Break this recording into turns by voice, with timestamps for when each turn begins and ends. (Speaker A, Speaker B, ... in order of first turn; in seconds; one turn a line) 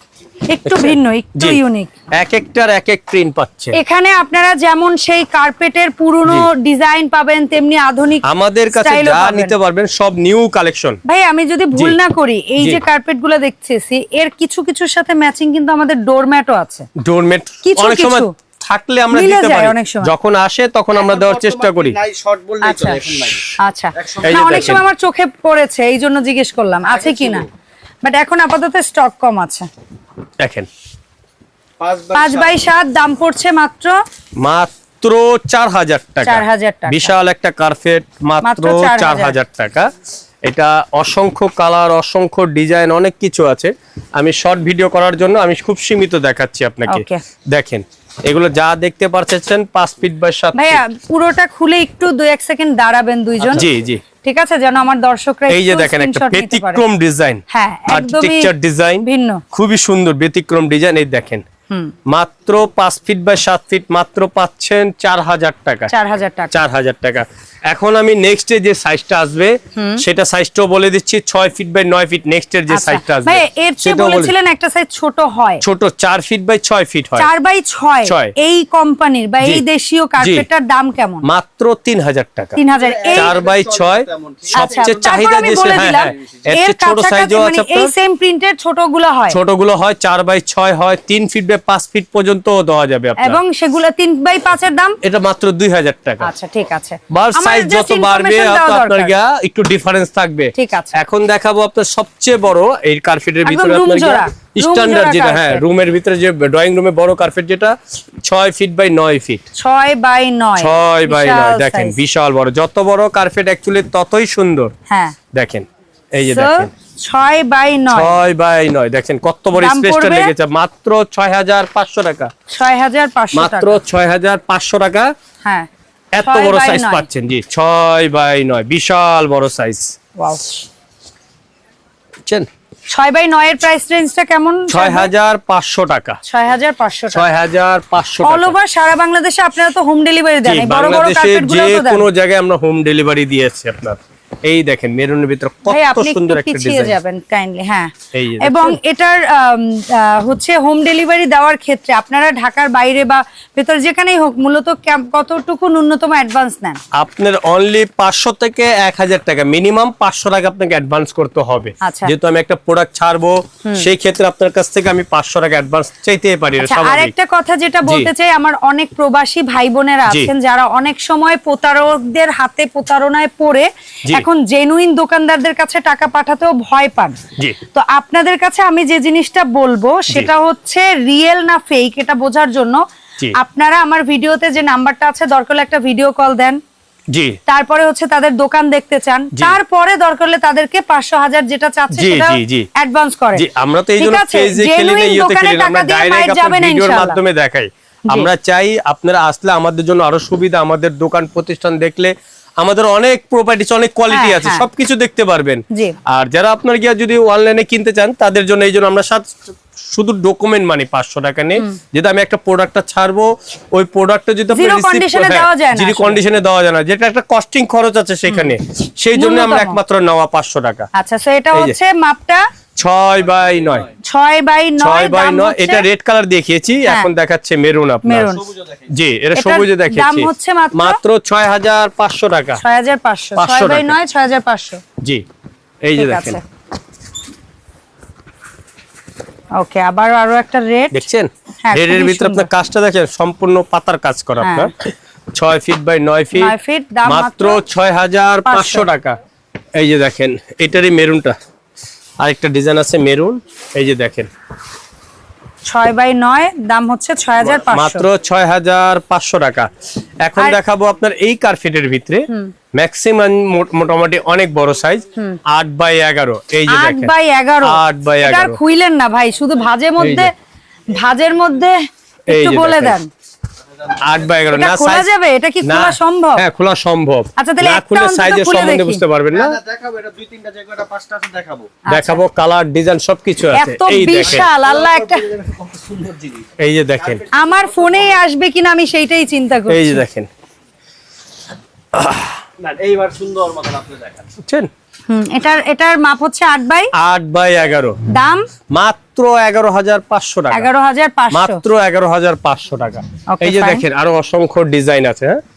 Speaker A: 0.5-1.9
Speaker B: 0.6-1.6
Speaker B: 2.1-3.8
Speaker A: 3.7-9.5
Speaker B: 8.2-11.0
Speaker A: 11.0-16.9
Speaker B: 17.0-22.0
Speaker A: 17.6-18.3
Speaker A: 19.1-20.1
Speaker C: 21.0-23.4
Speaker A: 22.6-23.0
Speaker A: 23.6-27.4
Speaker C: 24.0-24.3
Speaker B: 24.2-24.8
Speaker C: 27.1-27.4
Speaker A: 28.0-29.7
Speaker B: 30.4-30.7
Speaker C: 31.8-32.5
Speaker A: 32.1-33.9
Speaker B: 34.4-39.9
Speaker A: 36.2-37.1
Speaker A: 38.4-39.4
Speaker B: 40.4-50.8
Speaker A: 46.9-47.2
Speaker A: 50.5-53.7
Speaker B: 53.5-54.0
Speaker A: 54.2-56.8
Speaker B: 55.5-61.4
Speaker A: 57.5-58.5
Speaker A: 59.0-59.4
Speaker B: 62.1-65.9
Speaker A: 65.9-66.5
Speaker B: 66.5-74.3
Speaker A: 69.7-70.0
Speaker A: 72.7-75.6
Speaker B: 75.6-77.3
Speaker A: 77.2-81.2
Speaker B: 78.0-78.3
Speaker B: 80.2-80.5
Speaker B: 81.2-82.6
Speaker A: 82.5-83.4
Speaker C: 82.8-85.0
Speaker B: 83.1-87.9
Speaker A: 84.5-89.4
Speaker B: 89.3-93.4
Speaker A: 93.2-95.0
Speaker B: 95.0-96.3
Speaker A: 96.2-99.1
Speaker B: 97.1-109.4
Speaker A: 100.5-101.0
Speaker A: 103.4-105.6
Speaker A: 109.5-112.0
Speaker B: 110.6-114.7
Speaker A: 114.9-115.2
Speaker B: 115.3-116.7
Speaker A: 116.2-118.2
Speaker B: 117.9-122.3
Speaker A: 119.5-120.3
Speaker A: 122.5-123.8
Speaker B: 123.3-125.1
Speaker B: 126.1-129.9
Speaker A: 126.2-127.0
Speaker A: 130.2-130.5
Speaker A: 132.9-135.1
Speaker B: 134.7-136.2
Speaker A: 136.2-137.3
Speaker B: 137.1-138.5
Speaker A: 138.2-142.1
Speaker B: 140.4-146.9
Speaker A: 145.7-156.8
Speaker B: 148.1-148.8
Speaker B: 156.9-167.1
Speaker A: 161.8-162.1
Speaker A: 163.6-163.9
Speaker A: 166.6-177.2
Speaker A: 177.7-182.8
Speaker A: 183.3-186.6
Speaker B: 187.1-187.4
Speaker A: 187.5-197.2
Speaker B: 191.9-192.7
Speaker B: 193.3-220.9
Speaker A: 204.1-204.6
Speaker A: 214.5-216.2
Speaker A: 219.1-219.8
Speaker A: 220.9-222.5
Speaker B: 222.8-223.9
Speaker A: 224.0-225.8
Speaker B: 224.8-232.6
Speaker A: 228.0-228.5
Speaker A: 229.3-231.0
Speaker A: 232.6-234.8
Speaker B: 233.3-233.9
Speaker B: 235.8-236.4
Speaker A: 235.9-236.4
Speaker A: 239.6-241.0
Speaker B: 240.9-244.8
Speaker A: 241.6-242.5
Speaker A: 244.4-244.7
Speaker B: 245.3-246.5
Speaker A: 246.3-247.6
Speaker B: 247.1-249.2
Speaker A: 248.4-248.9
Speaker B: 249.8-251.3
Speaker B: 252.2-254.3
Speaker A: 255.7-258.1
Speaker B: 257.4-259.7
Speaker B: 260.2-267.1
Speaker A: 262.3-262.5
Speaker A: 266.7-270.3
Speaker B: 267.6-268.6
Speaker B: 270.0-270.3
Speaker A: 270.9-273.1
Speaker B: 272.3-273.0
Speaker B: 273.9-275.1
Speaker A: 274.5-276.4
Speaker B: 275.6-279.6
Speaker A: 277.4-279.0
Speaker C: 279.5-281.8
Speaker A: 281.9-282.2
Speaker B: 281.9-284.5
Speaker A: 283.5-285.3
Speaker C: 284.9-286.4
Speaker B: 286.6-287.2
Speaker A: 287.3-290.0
Speaker B: 289.7-290.3
Speaker B: 291.9-292.4
Speaker C: 292.6-294.2
Speaker B: 294.4-294.7
Speaker A: 295.1-296.9
Speaker B: 296.9-298.0
Speaker A: 298.1-298.5
Speaker B: 298.7-300.7
Speaker A: 300.5-301.6
Speaker B: 301.3-305.4
Speaker A: 303.3-303.8